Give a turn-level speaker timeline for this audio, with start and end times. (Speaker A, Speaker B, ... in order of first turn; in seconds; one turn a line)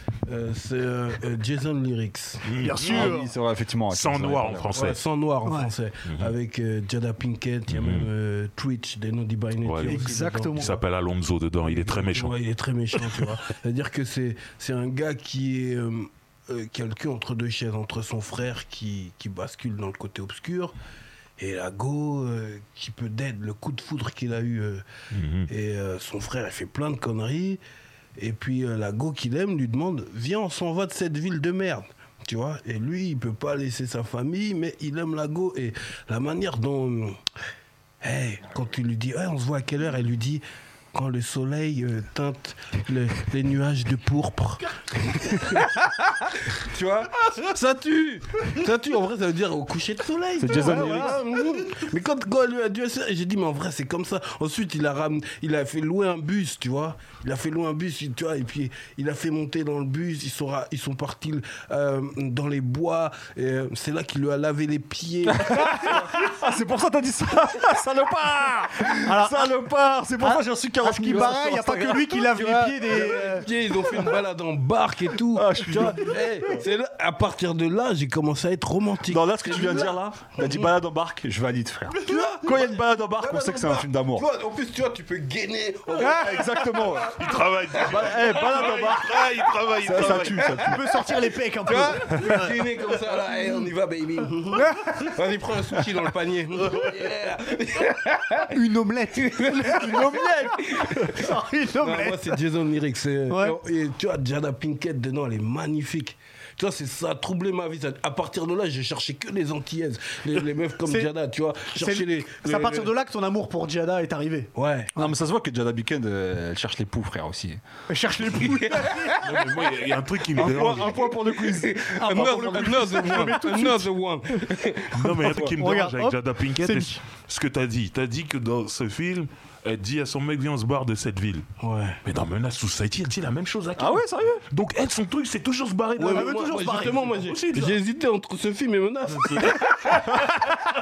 Speaker A: 0.2-2.5
Speaker B: 2.4-3.1
Speaker C: 2.6-3.3
Speaker D: 2.8-4.8
Speaker B: 3.9-5.0
Speaker A: 4.7-10.8
Speaker C: 5.5-5.7
Speaker B: 6.0-6.3
Speaker B: 7.7-8.1
Speaker B: 9.6-12.4
Speaker C: 9.8-10.7
Speaker A: 11.7-20.7
Speaker A: 21.4-24.8
Speaker B: 25.1-25.5
Speaker A: 25.5-27.6
Speaker A: 28.2-37.2
Speaker A: 38.0-46.1
Speaker D: 46.7-47.1
Speaker A: 47.2-66.2
Speaker D: 50.4-51.2
Speaker C: 50.5-51.2
Speaker D: 65.3-72.0
Speaker C: 69.0-69.5
Speaker C: 70.2-73.5
Speaker A: 71.1-80.7
Speaker D: 75.3-76.5
Speaker D: 79.0-84.3
Speaker A: 82.0-87.0
Speaker D: 86.0-87.2
Speaker C: 86.0-86.5
Speaker B: 87.1-90.6
Speaker A: 87.8-88.0
Speaker D: 87.8-89.3
Speaker D: 89.8-90.8
Speaker C: 90.6-92.6
Speaker A: 91.6-98.6
Speaker C: 94.5-95.1
Speaker C: 98.5-102.4
Speaker A: 99.2-112.9
Speaker D: 99.7-100.6
Speaker C: 103.3-103.6
Speaker C: 111.7-114.5
Speaker A: 114.5-114.9
Speaker D: 115.0-117.6
Speaker C: 117.9-119.3
Speaker A: 118.4-118.9
Speaker B: 119.2-121.1
Speaker D: 120.3-123.0
Speaker A: 121.4-125.0
Speaker C: 122.0-123.9
Speaker B: 124.9-131.5
Speaker D: 125.2-125.5
Speaker C: 125.6-127.0
Speaker A: 131.6-132.0
Speaker B: 132.0-137.8
Speaker D: 133.8-134.4
Speaker A: 136.0-140.1
Speaker C: 136.1-137.1
Speaker B: 139.2-139.9
Speaker D: 140.1-140.4